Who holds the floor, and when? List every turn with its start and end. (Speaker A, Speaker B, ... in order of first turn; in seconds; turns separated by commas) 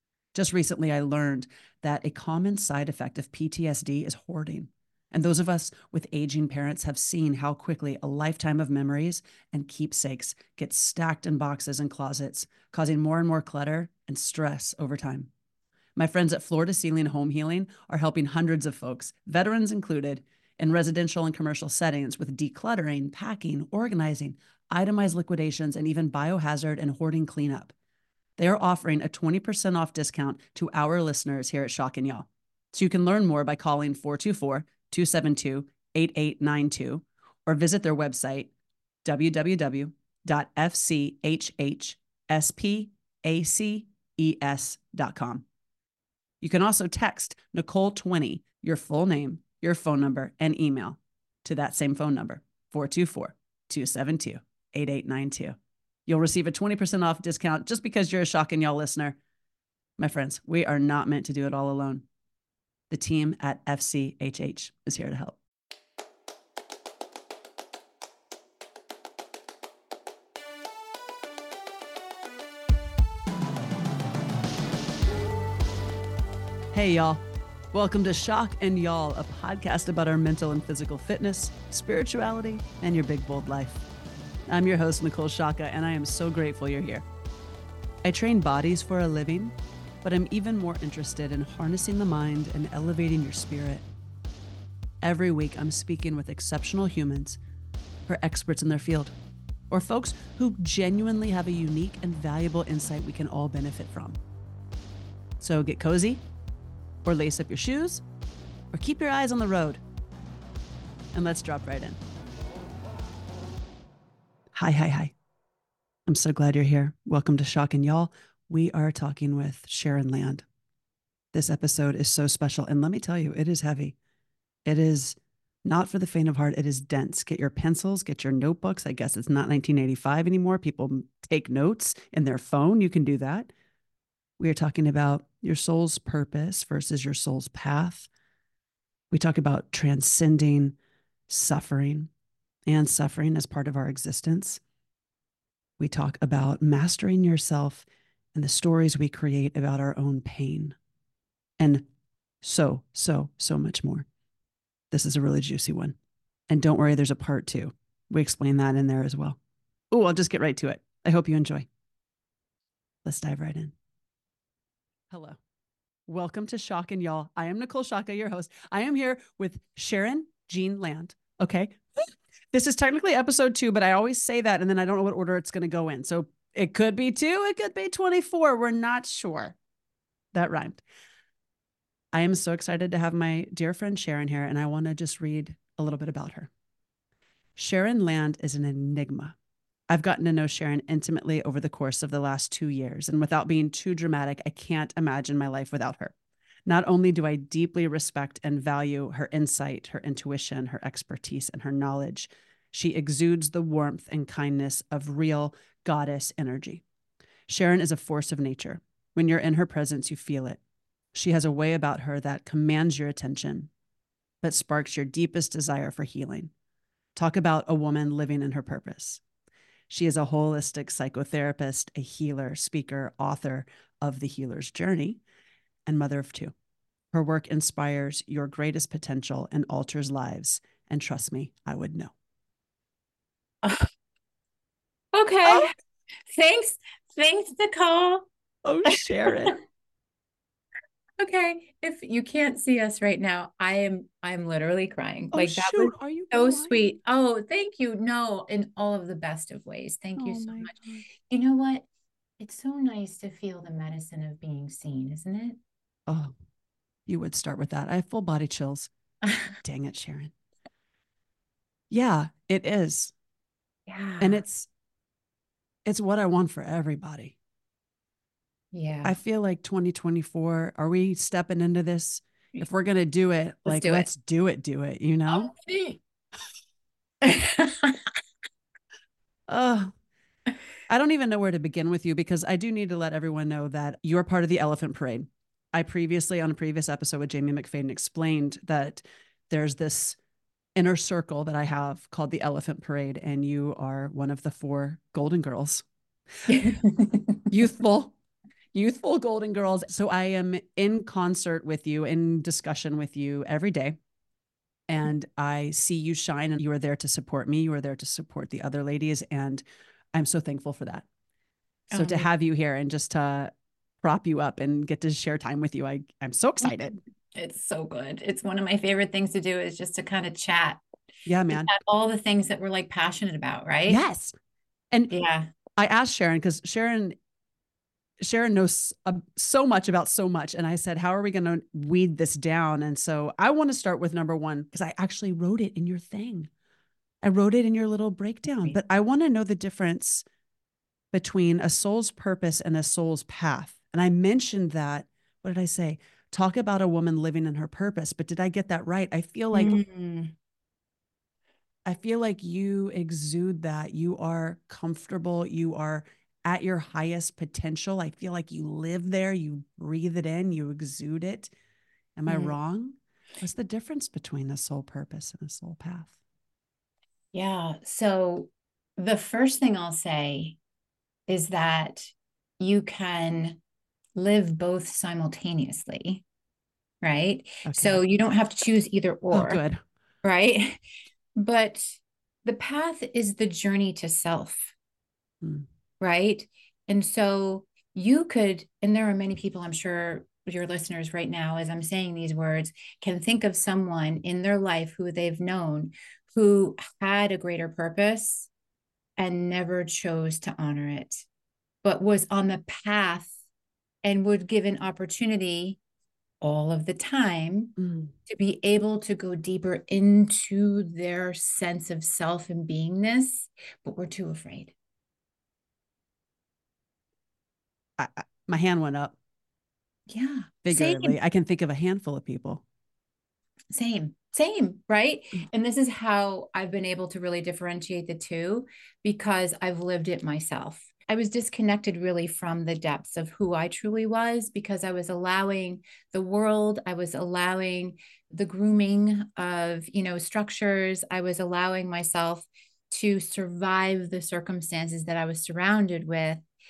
Speaker A: 0.3-15.3, Speaker A: 16.0-27.7, Speaker A: 28.4-38.5, Speaker A: 39.0-45.5, Speaker A: 46.4-59.2, Speaker A: 60.0-62.1, Speaker A: 62.9-65.4, Speaker A: 76.7-77.2, Speaker A: 77.7-83.8, Speaker A: 84.5-87.0, Speaker A: 88.0-93.8, Speaker A: 95.0-97.4, Speaker A: 98.1-99.2, Speaker A: 99.7-104.2, Speaker A: 105.4-106.2, Speaker A: 107.0-108.0, Speaker A: 108.7-109.8, Speaker A: 111.1-112.0, Speaker A: 114.5-115.1, Speaker A: 116.1-120.5, Speaker A: 121.3-124.0, Speaker A: 124.7-133.5, Speaker A: 134.4-138.1, Speaker A: 139.1-140.8, Speaker A: 141.3-142.1, Speaker A: 142.7-144.6, Speaker A: 145.8-150.8, Speaker A: 151.6-151.8, Speaker A: 152.4-154.1, Speaker A: 154.9-156.0, Speaker A: 156.5-159.4, Speaker A: 159.9-161.7, Speaker A: 163.1-163.7, Speaker A: 165.1-165.4, Speaker A: 166.1-179.6, Speaker A: 180.3-180.8, Speaker A: 182.1-186.5, Speaker A: 187.6-189.4, Speaker A: 189.9-196.1, Speaker A: 196.7-206.8, Speaker A: 207.5-210.6, Speaker A: 211.1-213.7, Speaker A: 214.4-216.5, Speaker A: 217.2-219.2, Speaker A: 219.9-225.2, Speaker A: 225.9-226.5, Speaker A: 227.1-232.1, Speaker B: 233.6-233.9, Speaker B: 235.1-235.7, Speaker A: 235.4-235.7, Speaker B: 236.3-238.3, Speaker A: 238.6-239.6, Speaker B: 238.9-239.6, Speaker B: 241.2-251.9, Speaker A: 245.3-246.9, Speaker A: 250.2-251.1, Speaker B: 252.4-255.6, Speaker A: 256.1-256.3, Speaker A: 257.1-258.9, Speaker A: 259.6-260.3, Speaker A: 261.9-263.1, Speaker B: 263.9-264.4, Speaker A: 264.2-264.7, Speaker A: 265.9-267.4, Speaker B: 268.7-269.1, Speaker A: 269.0-275.5, Speaker B: 273.7-274.1, Speaker B: 275.3-276.0, Speaker B: 277.2-278.1, Speaker A: 279.5-279.9, Speaker A: 280.9-290.2, Speaker A: 290.8-295.9, Speaker B: 296.5-297.5, Speaker A: 297.5-298.1, Speaker A: 298.7-304.0, Speaker A: 304.9-311.1, Speaker B: 311.9-312.3, Speaker A: 311.9-313.5, Speaker A: 314.0-317.0, Speaker B: 317.3-320.8, Speaker A: 321.3-321.7, Speaker B: 321.5-324.0, Speaker A: 323.9-324.3, Speaker B: 325.1-325.5, Speaker A: 325.8-327.2, Speaker A: 328.2-336.5, Speaker A: 337.2-340.2, Speaker A: 341.1-349.8, Speaker B: 349.5-350.3, Speaker A: 351.9-361.5, Speaker A: 362.2-366.1, Speaker B: 362.3-362.6, Speaker B: 367.3-370.6, Speaker B: 371.3-373.6, Speaker B: 374.2-376.2, Speaker B: 377.0-379.6, Speaker A: 377.6-378.0, Speaker A: 379.3-379.8, Speaker B: 380.2-380.8, Speaker B: 381.4-384.8, Speaker A: 385.4-385.7, Speaker B: 386.0-398.5, Speaker B: 399.2-401.3, Speaker B: 401.8-403.3, Speaker B: 404.0-405.8, Speaker B: 406.4-407.8, Speaker A: 407.8-408.1, Speaker B: 408.3-414.7, Speaker A: 418.0-419.2, Speaker B: 420.1-421.2, Speaker A: 420.6-422.6, Speaker B: 423.7-446.4